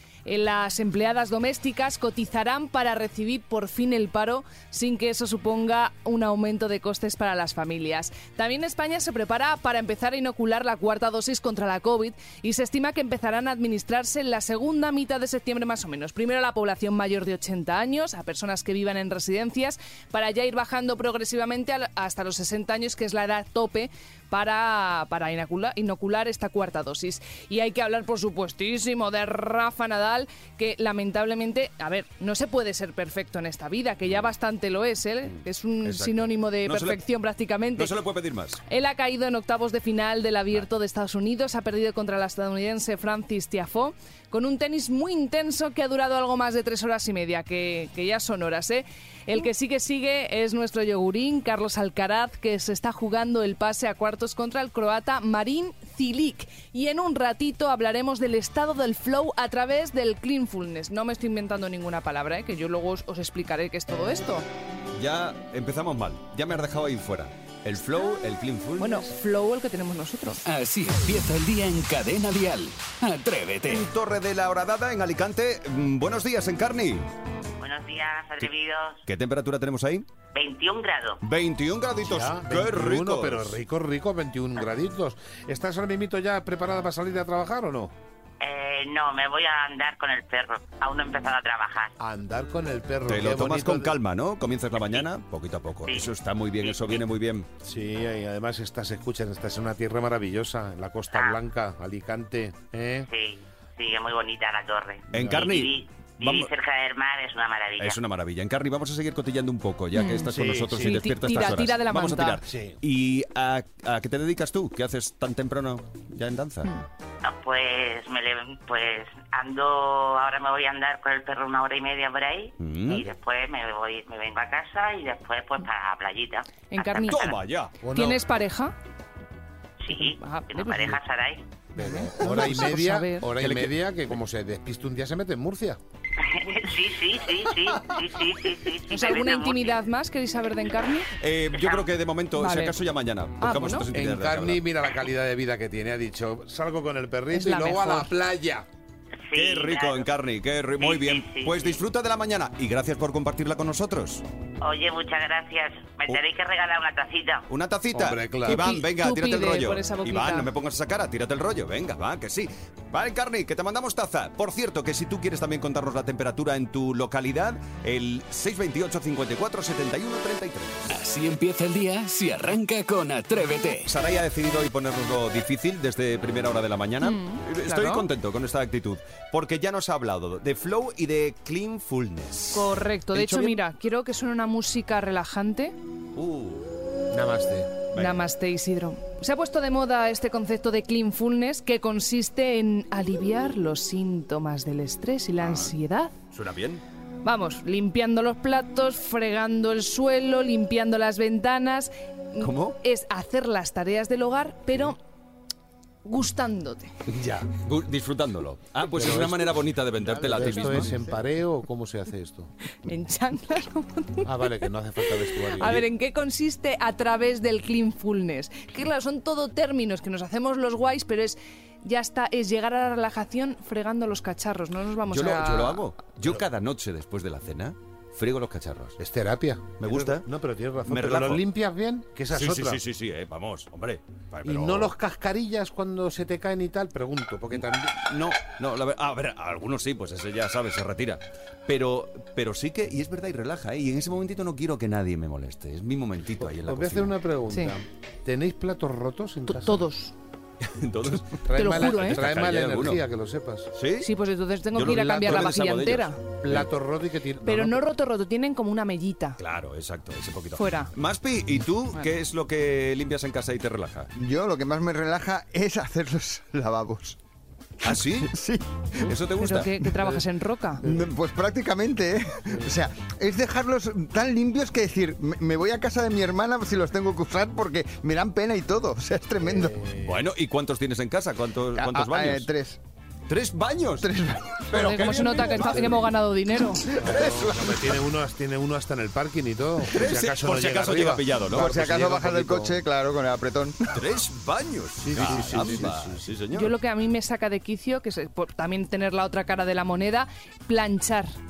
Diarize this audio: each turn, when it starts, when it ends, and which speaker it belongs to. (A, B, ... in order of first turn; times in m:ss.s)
0:00.2-0:37.9 A
0:35.2-0:37.0 B
0:37.8-0:38.6 B
0:38.7-1:04.4 A
1:04.9-1:09.1 B
1:08.8-1:10.4 A
1:10.4-1:13.8 C
1:13.7-1:17.1 B
1:17.6-1:19.0 D
1:19.0-1:20.0 B
1:20.3-1:21.2 D
1:21.2-1:23.6 B
1:22.0-1:27.9 E
1:28.4-1:31.9 D
1:32.0-1:33.9 E
1:33.0-1:37.5 B
1:34.8-1:35.0 D
1:35.8-1:37.0 D
1:37.6-1:43.1 E
1:41.1-1:41.4 D
1:43.1-1:48.0 D
1:45.1-1:45.5 E
1:45.1-1:46.5 B
1:47.8-1:56.7 B
1:49.9-1:52.4 A
1:50.3-1:51.0 E
1:52.5-1:52.8 E
1:57.2-2:07.4 D
2:02.6-2:03.0 B
2:06.7-2:07.3 A
2:07.0-2:07.8 B
2:07.8-2:08.2 E
2:07.9-2:08.7 A
2:09.8-2:11.4 D
2:09.9-2:11.0 A
2:11.7-2:15.8 E
2:12.2-2:13.3 A
2:13.4-2:13.8 B
2:16.2-2:19.8 D
2:18.9-2:21.1 A
2:21.2-2:24.7 B
2:21.5-2:21.9 D
2:22.4-2:22.8 A
2:23.4-2:23.8 A
2:23.9-2:28.6 E
2:27.3-2:28.1 A
2:29.3-2:30.1 D
2:29.3-2:34.2 B
2:30.8-2:31.8 D
2:34.6-2:37.4 D
2:37.5-2:50.9 B
2:37.9-2:38.7 E
2:38.4-2:40.5 A
2:50.9-2:53.9 C
2:53.8-3:03.6 B
2:57.0-2:58.0 A
3:02.5-3:05.7 A
3:06.1-3:06.7 B
3:07.1-3:07.7 E
3:07.9-3:08.2 B
3:08.0-3:16.1 A
3:15.4-3:15.7 B
3:16.3-3:16.8 B
3:17.2-3:25.0 A
3:22.4-3:22.8 B
3:26.0-3:26.9 A
3:27.1-3:27.5 E
3:27.6-3:30.9 B
3:28.9-3:32.5 E
3:32.8-3:45.8 A
3:34.2-3:35.8 E
3:45.0-3:49.0 B
3:49.0-3:52.8 E
3:49.8-3:50.3 B
3:50.8-3:51.5 B
3:52.3-3:54.9 B
3:54.4-3:57.9 E
3:57.5-4:07.2 B
4:06.4-4:09.8 E
4:09.5-4:10.1 A
4:10.6-4:13.0 B
4:11.4-4:13.7 E
4:11.5-4:12.2 A
4:13.7-4:14.1 B
4:14.0-4:16.2 A
4:14.7-4:16.7 B
4:16.4-4:17.8 E
4:17.4-4:19.4 A
4:19.4-4:24.1 B
4:20.5-4:20.9 A
4:24.1-4:27.2 F
4:27.8-4:28.3 B
4:27.8-4:28.6 F
4:29.0-4:29.9 B
4:29.4-4:30.8 A
4:30.8-4:39.8 F
4:32.5-4:32.8 E
4:39.4-4:40.3 E
4:40.0-4:42.5 B
4:41.8-4:42.8 F
4:43.3-4:44.1 B
4:44.0-4:45.2 F
4:44.7-4:46.1 B
4:44.7-4:46.9 A
4:47.0-4:52.7 E
4:47.0-4:47.8 B
4:47.0-4:47.8 F
4:49.8-4:51.9 B
4:51.5-4:54.0 F
4:53.9-4:56.7 B
4:55.0-4:56.2 E
4:55.2-4:55.7 F
4:56.5-5:01.4 A